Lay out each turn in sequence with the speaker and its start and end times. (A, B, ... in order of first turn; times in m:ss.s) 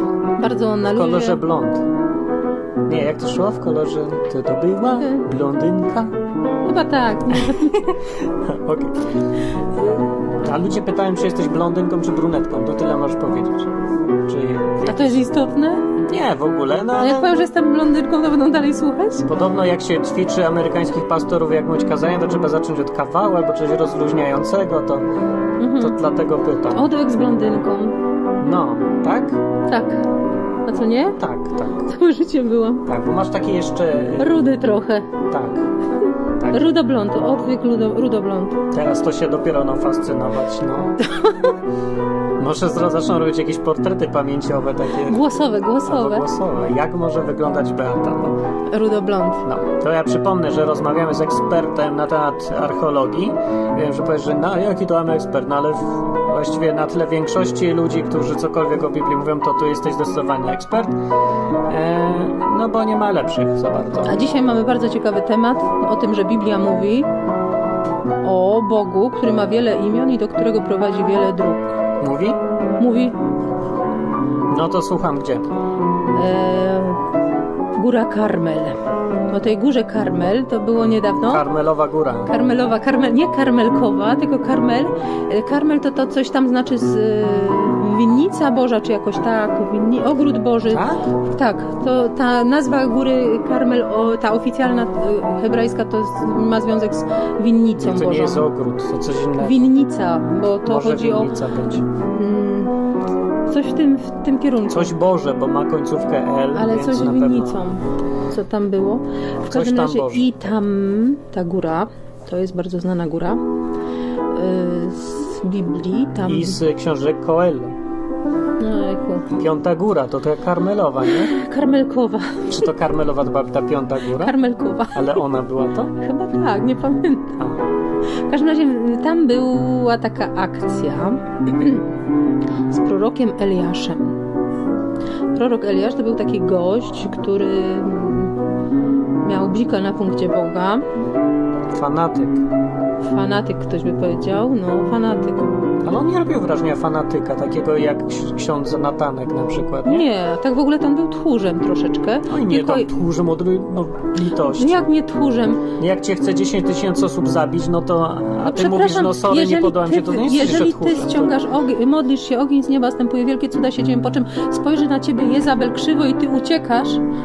0:00.4-0:01.4 A
0:00.9-0:01.9 B
0:02.8-0:06.1 B
0:04.9-0:05.2 A
0:06.6-0:08.0 A
0:07.4-0:09.2 B
0:10.4-0:15.3 B
0:14.8-0:16.0 A
0:16.1-0:17.3 B
0:17.0-0:19.3 A
0:19.2-0:25.1 B
0:25.6-0:26.0 A
0:25.8-0:26.9 B
0:26.7-0:28.0 A
0:28.4-0:29.4 B
0:29.7-0:30.1 A
0:30.6-0:31.2 A
0:31.2-0:31.9 B
0:31.8-0:32.8 A
0:32.8-0:34.5 B
0:34.2-0:35.1 A
0:35.3-0:35.7 B
0:36.4-0:36.7 B
0:36.5-0:38.6 A
0:38.7-0:41.1 B
0:41.1-0:41.5 A
0:42.4-0:45.3 B
0:45.1-0:46.3 A
0:45.8-0:48.4 B
0:48.7-0:49.4 A
0:49.4-1:01.0 B
1:01.7-1:04.2 B
1:04.0-1:07.1 A
1:08.2-1:11.8 A
1:12.0-1:12.4 B
1:12.8-1:13.2 A
1:14.5-1:15.5 B
1:16.1-1:17.0 A
1:17.7-1:18.8 A
1:19.3-1:21.5 A
1:21.3-1:22.3 B
1:22.2-1:38.5 A
1:30.7-1:31.0 B
1:37.8-1:39.7 B
1:39.4-1:41.3 A
1:40.6-1:41.8 B
1:41.9-1:42.8 A
1:43.5-1:44.9 A
1:44.7-1:47.8 B
1:46.5-1:53.4 A
1:49.5-1:50.4 B
1:54.3-1:56.6 A
1:56.2-1:57.8 B
1:58.6-1:59.3 A
1:59.3-2:01.4 B
2:01.0-2:02.7 A
2:02.5-2:04.4 B
2:04.2-2:05.2 A
2:04.9-2:05.9 B
2:05.9-2:07.4 A
2:07.4-2:07.6 B
2:08.2-2:11.8 A
2:12.7-2:14.2 A
2:15.3-2:18.4 A
2:19.2-2:20.8 A
2:21.7-2:22.5 B
2:23.0-2:25.6 A
2:25.8-2:30.1 B
2:29.8-2:32.9 A
2:32.3-2:34.8 B
2:34.4-2:35.7 A
2:35.6-2:41.4 B
2:38.4-2:47.0 A